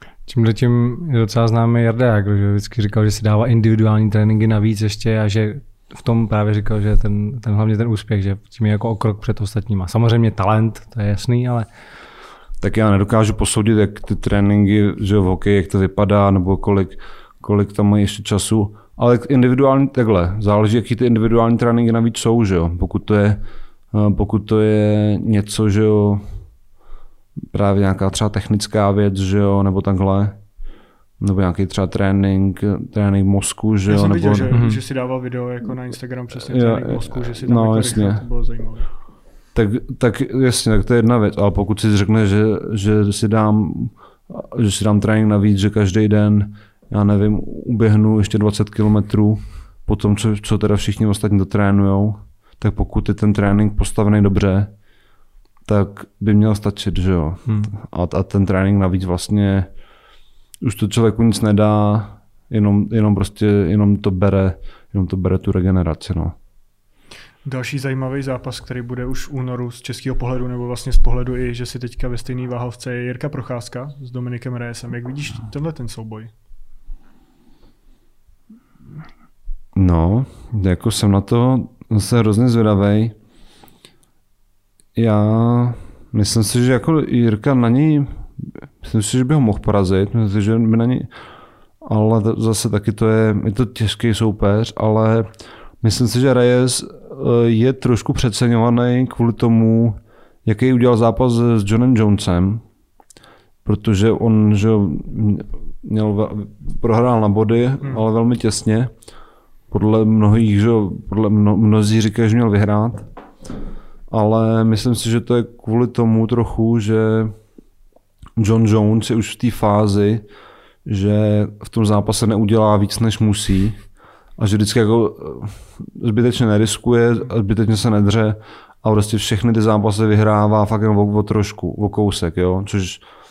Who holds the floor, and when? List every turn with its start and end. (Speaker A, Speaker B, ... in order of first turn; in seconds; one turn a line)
Speaker A: 0.3-11.7
Speaker B: 12.6-26.3
Speaker B: 27.5-30.4
Speaker B: 31.2-34.6
Speaker C: 33.9-38.9
Speaker A: 34.5-34.8
Speaker B: 36.4-38.2
Speaker B: 39.5-54.7
Speaker B: 55.6-59.7
Speaker A: 57.5-57.7
Speaker B: 60.6-66.3
Speaker C: 67.4-76.3
Speaker B: 79.8-83.2
Speaker B: 85.0-91.1
Speaker B: 91.8-102.6
Speaker B: 103.7-108.9
Speaker B: 109.7-113.1
Speaker B: 114.1-117.4
Speaker B: 118.4-120.2
Speaker B: 120.9-123.8
Speaker B: 124.4-133.1